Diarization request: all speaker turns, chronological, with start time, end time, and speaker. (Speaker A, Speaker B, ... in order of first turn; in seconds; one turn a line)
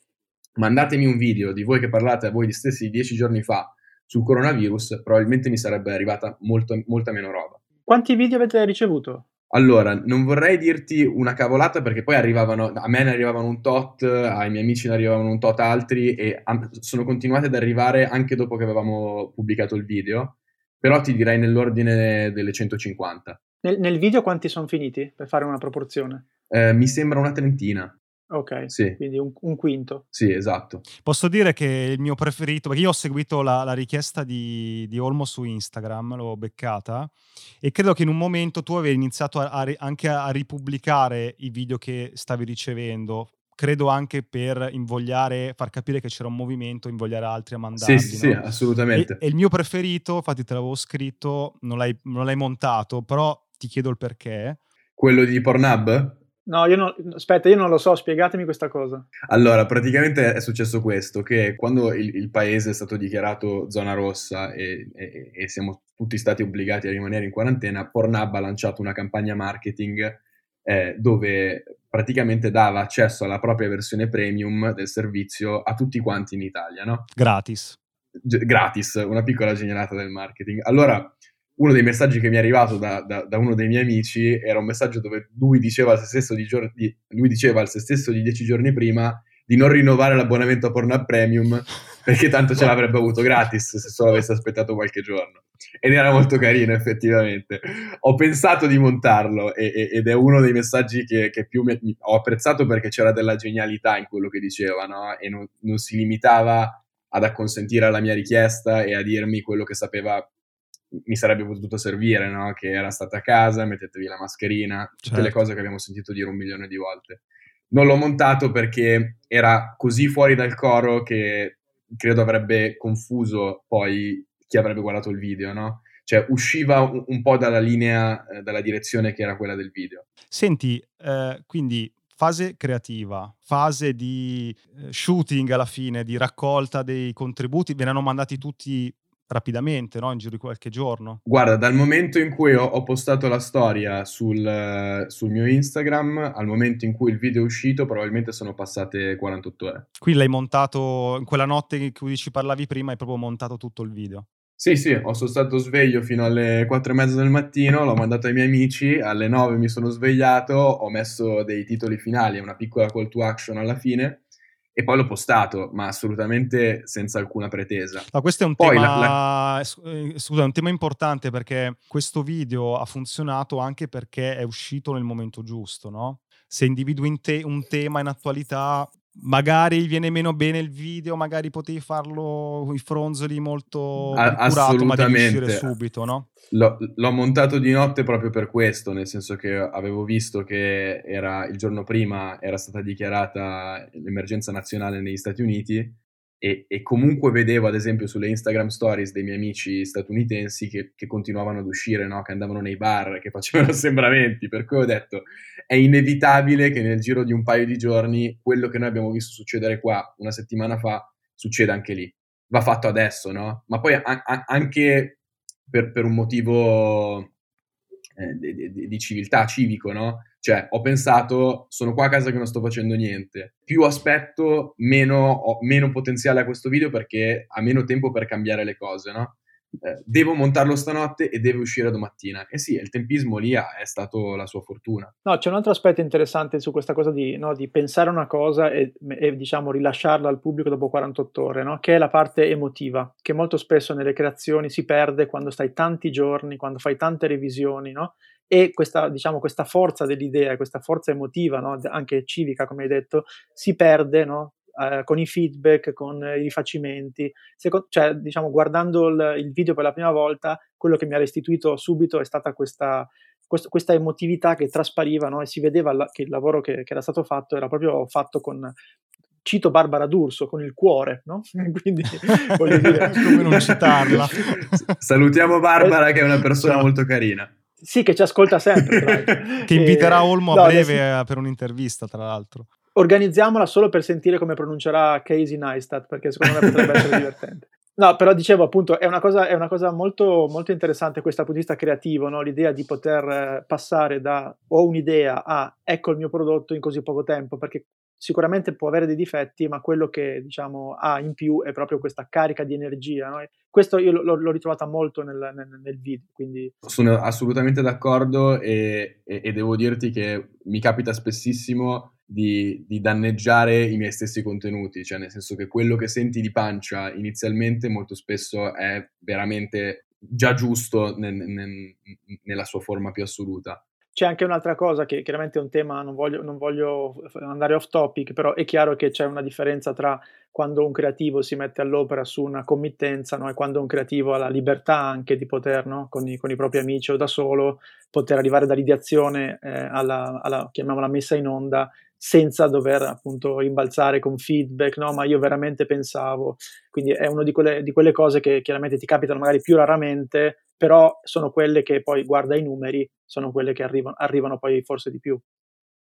Speaker A: 0.6-7.6
Speaker B: 7.9-9.3
Speaker A: 9.5-23.4
Speaker B: 23.6-26.2
Speaker A: 26.5-27.9
Speaker B: 28.3-30.0
Speaker A: 28.7-29.0
Speaker A: 30.1-30.8
Speaker C: 31.0-48.4
Speaker A: 47.7-49.2
Speaker C: 48.9-54.6
Speaker A: 55.0-56.2
Speaker B: 56.5-59.1
Speaker A: 59.3-77.1
Speaker C: 77.2-77.8
Speaker A: 78.2-110.3
Speaker A: 110.9-130.1
Speaker C: 115.0-115.4
Speaker C: 130.3-141.2
Speaker A: 141.2-149.9
Speaker C: 150.0-154.3
Speaker A: 154.6-164.2
Speaker A: 164.7-169.2
Speaker C: 168.1-186.3
Speaker A: 184.1-185.7
Speaker A: 186.5-215.2
Speaker A: 215.7-217.3
Speaker A: 218.2-235.1
Speaker B: 235.2-268.8
Speaker B: 269.4-273.3
Speaker C: 272.7-274.9
Speaker A: 272.8-277.5
Speaker B: 277.8-281.0
Speaker A: 278.9-279.1
Speaker C: 279.7-282.7
Speaker B: 282.9-306.7
Speaker A: 286.5-287.1
Speaker A: 306.8-323.8
Speaker B: 324.1-355.4